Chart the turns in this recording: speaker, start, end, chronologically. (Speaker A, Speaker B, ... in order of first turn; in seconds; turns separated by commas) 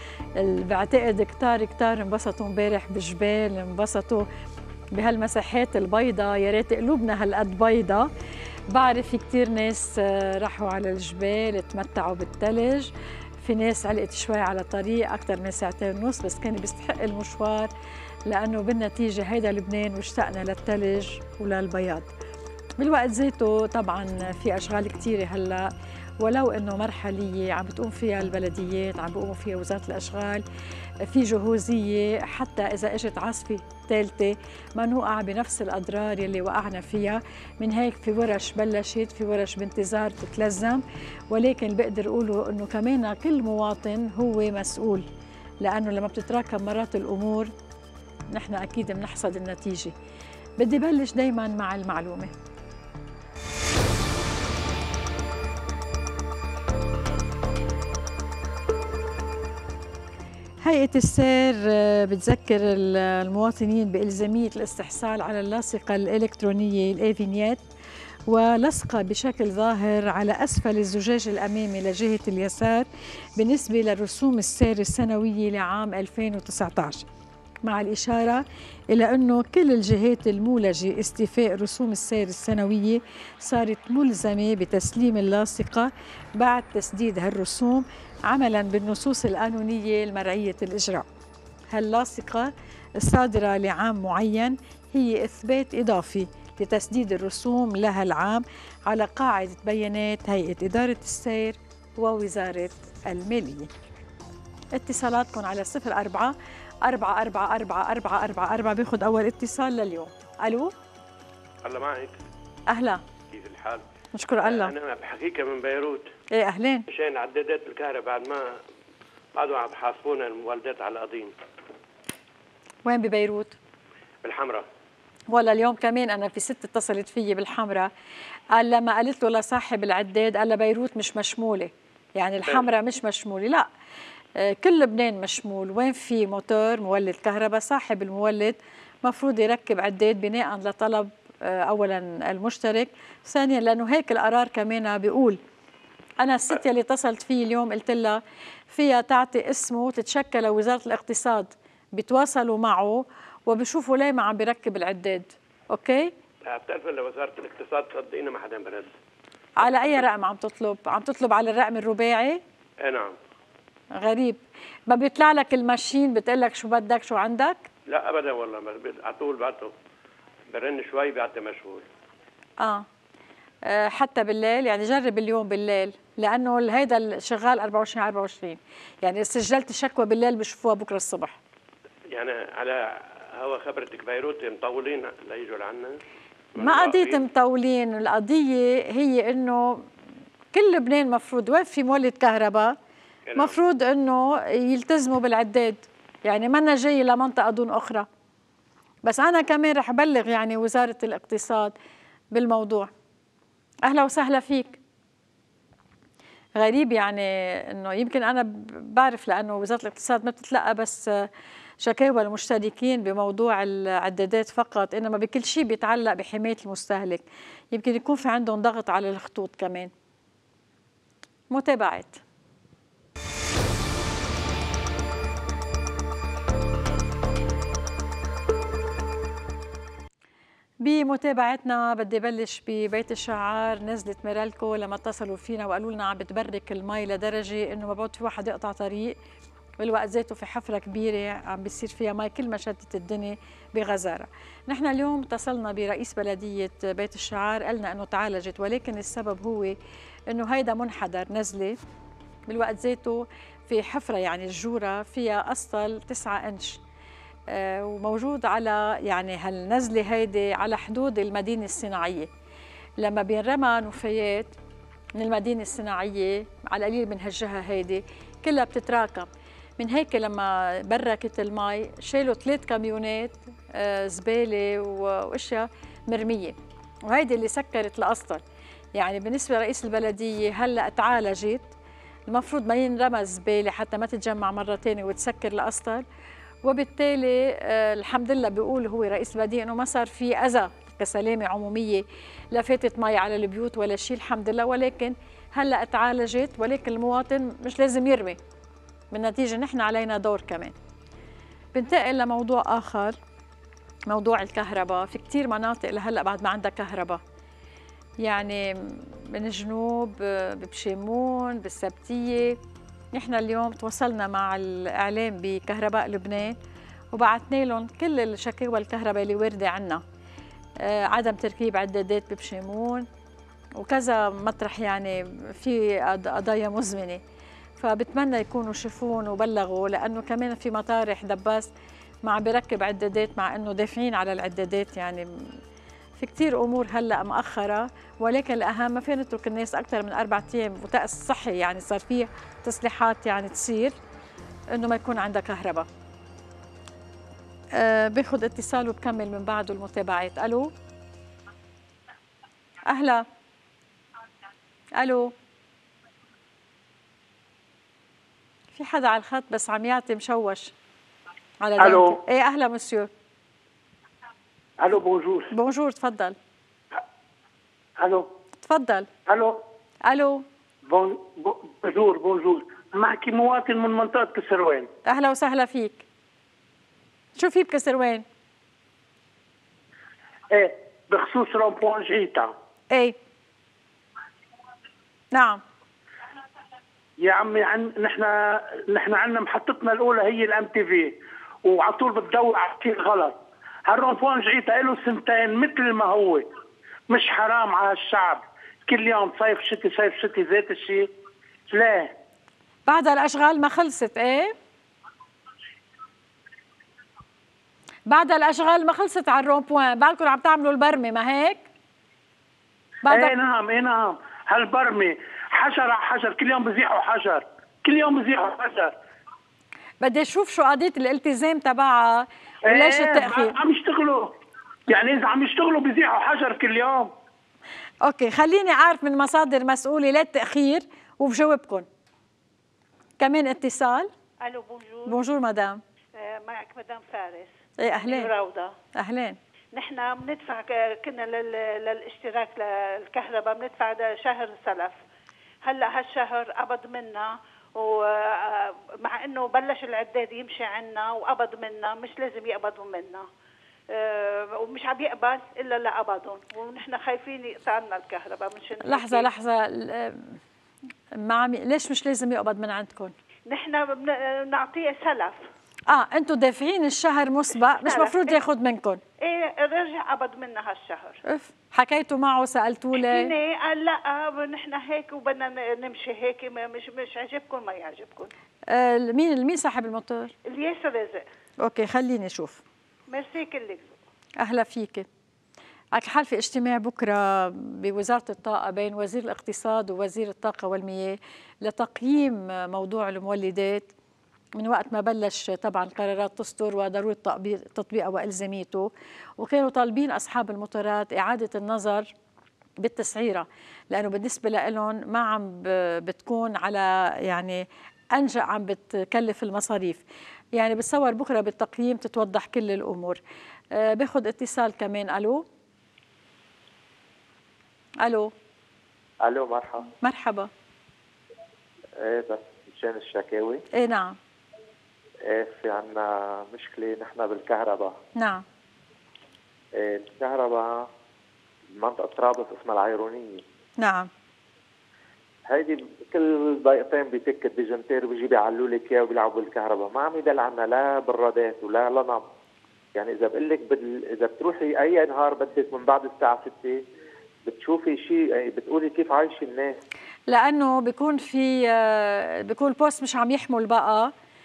Speaker A: 0.4-4.2, Speaker A: 4.9-8.1, Speaker A: 8.7-17.7, Speaker A: 18.3-22.1, Speaker A: 22.8-25.7, Speaker A: 26.2-30.4, Speaker A: 31.0-45.1, Speaker A: 45.6-47.5, Speaker A: 48.3-49.9, Speaker A: 50.6-52.3, Speaker A: 60.6-67.6, Speaker A: 68.3-77.0, Speaker A: 77.7-91.1, Speaker A: 91.7-103.7, Speaker A: 104.7-110.7, Speaker B: 111.7-112.2, Speaker A: 112.7-113.0, Speaker B: 113.3-113.8, Speaker A: 114.1-114.7, Speaker B: 114.4-116.1, Speaker A: 116.3-116.9, Speaker B: 116.9-118.6, Speaker B: 119.3-121.3, Speaker A: 122.8-123.6, Speaker B: 124.2-124.7, Speaker A: 125.3-127.9, Speaker A: 128.5-133.7, Speaker A: 134.4-145.4, Speaker A: 146.2-156.1, Speaker B: 156.4-158.9, Speaker A: 159.6-162.4, Speaker B: 159.7-160.0, Speaker B: 162.8-163.2, Speaker A: 163.9-167.7, Speaker B: 167.9-169.7, Speaker B: 170.5-171.9, Speaker A: 172.6-172.8, Speaker A: 173.6-181.4, Speaker B: 182.1-186.0, Speaker B: 186.6-187.2, Speaker A: 186.6-189.8, Speaker A: 190.5-192.8, Speaker B: 193.3-193.6, Speaker A: 193.3-198.1, Speaker A: 199.1-201.7, Speaker A: 202.3-202.9, Speaker A: 203.8-204.8, Speaker A: 206.6-211.3, Speaker A: 211.8-219.9, Speaker A: 221.5-222.2, Speaker A: 230.8-239.2, Speaker A: 239.8-249.8, Speaker A: 250.3-251.8, Speaker A: 252.5-256.8, Speaker A: 257.5-262.3, Speaker A: 263.0-264.5, Speaker A: 265.2-276.6, Speaker A: 277.1-278.4, Speaker A: 279.0-281.7, Speaker A: 282.3-286.0, Speaker A: 286.6-298.4, Speaker A: 299.1-300.8, Speaker A: 301.7-303.2, Speaker A: 304.1-307.2, Speaker A: 308.2-312.6, Speaker A: 313.1-316.6, Speaker A: 317.1-320.0, Speaker A: 320.8-323.1, Speaker A: 323.8-327.2, Speaker A: 327.8-331.7, Speaker A: 332.2-335.3, Speaker A: 336.2-344.0, Speaker A: 344.7-345.9, Speaker A: 347.8-350.7, Speaker A: 352.9-353.2, Speaker A: 355.0-355.3, Speaker A: 358.8-360.7, Speaker A: 361.6-363.1, Speaker C: 361.8-362.2, Speaker C: 364.8-365.5, Speaker A: 365.5-366.4, Speaker C: 368.0-368.3, Speaker A: 368.6-369.1, Speaker C: 369.3-369.6, Speaker A: 370.1-370.4, Speaker C: 370.9-374.9, Speaker A: 375.1-376.0, Speaker A: 377.4-378.2, Speaker C: 380.5-382.5, Speaker A: 382.9-383.2, Speaker A: 385.3-385.6, Speaker C: 387.2-391.1, Speaker C: 391.6-396.5, Speaker C: 397.1-401.1, Speaker C: 401.7-402.1, Speaker A: 402.9-404.6, Speaker A: 408.1-411.6, Speaker A: 413.1-413.3, Speaker C: 413.1-418.9, Speaker A: 420.0-423.6, Speaker C: 422.7-424.3, Speaker C: 424.9-427.1, Speaker A: 428.0-431.9, Speaker A: 433.2-434.1, Speaker D: 434.4-435.2, Speaker A: 435.1-435.8, Speaker D: 436.2-438.7, Speaker A: 437.8-438.3, Speaker A: 439.0-439.4, Speaker D: 439.7-445.0, Speaker D: 445.6-453.3, Speaker D: 453.9-459.3, Speaker A: 458.8-460.4, Speaker A: 461.1-463.1, Speaker D: 463.5-465.4, Speaker A: 465.9-469.0, Speaker D: 467.8-468.4, Speaker D: 469.2-471.2, Speaker A: 471.2-473.3, Speaker D: 472.9-478.3, Speaker A: 478.7-480.3, Speaker D: 480.5-481.3, Speaker A: 481.6-482.6, Speaker D: 483.1-483.9, Speaker A: 484.4-485.1, Speaker A: 485.9-493.9, Speaker A: 494.6-502.1, Speaker A: 502.8-510.0, Speaker A: 510.5-513.2, Speaker A: 513.7-515.5, Speaker A: 518.0-518.3, Speaker E: 519.2-519.9, Speaker A: 520.0-520.5, Speaker E: 522.0-523.6, Speaker A: 523.7-524.2, Speaker E: 525.2-528.0, Speaker A: 528.2-528.4, Speaker E: 529.8-530.9, Speaker E: 531.7-533.4, Speaker A: 533.8-534.1, Speaker E: 535.5-542.2, Speaker E: 543.0-546.8, Speaker E: 547.5-549.8, Speaker A: 550.3-554.1